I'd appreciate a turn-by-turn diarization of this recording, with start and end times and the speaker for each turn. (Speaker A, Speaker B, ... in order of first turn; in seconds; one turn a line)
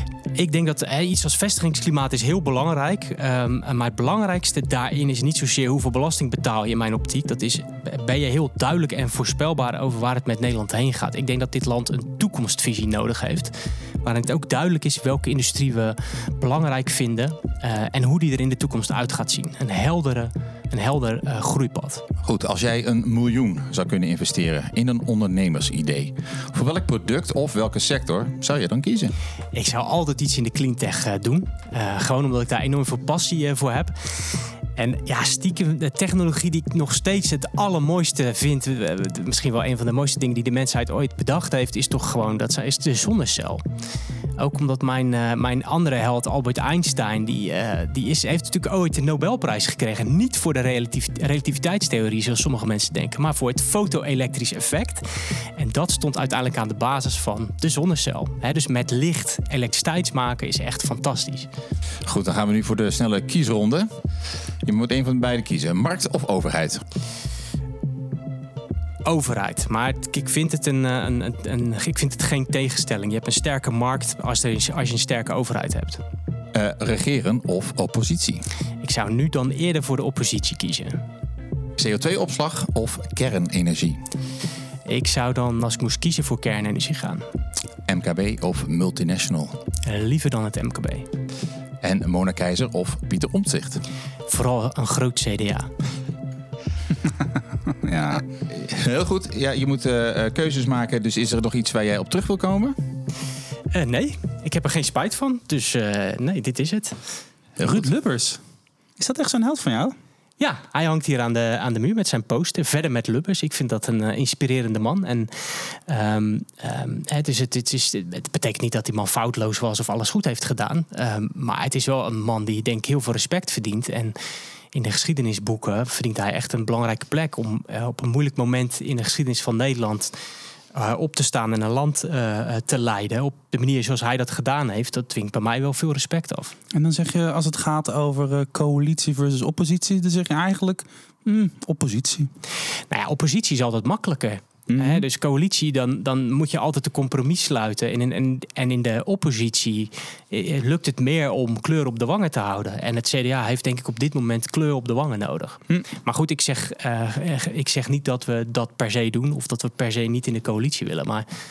Speaker A: 0.3-22.0
Speaker B: 22.2-29.1
Speaker A: 29.5-33.9
Speaker A: 34.8-43.6
Speaker A: 44.4-55.0
Speaker A: 55.6-61.5
Speaker B: 62.1-63.9
Speaker B: 64.6-66.8
Speaker A: 69.0-76.0
Speaker B: 76.5-78.4
Speaker A: 78.8-81.0
Speaker B: 81.8-84.0
Speaker A: 84.8-87.2
Speaker B: 87.9-89.6
Speaker A: 89.8-91.1
Speaker B: 91.8-93.8
Speaker A: 94.3-95.7
Speaker C: 97.8-98.2
Speaker B: 98.5-102.7
Speaker A: 103.7-107.0
Speaker C: 107.6-108.4
Speaker C: 109.0-109.9
Speaker A: 110.4-124.1
Speaker A: 124.7-130.1
Speaker A: 130.7-136.5
Speaker C: 136.7-142.3
Speaker A: 142.9-161.2
Speaker C: 144.7-145.0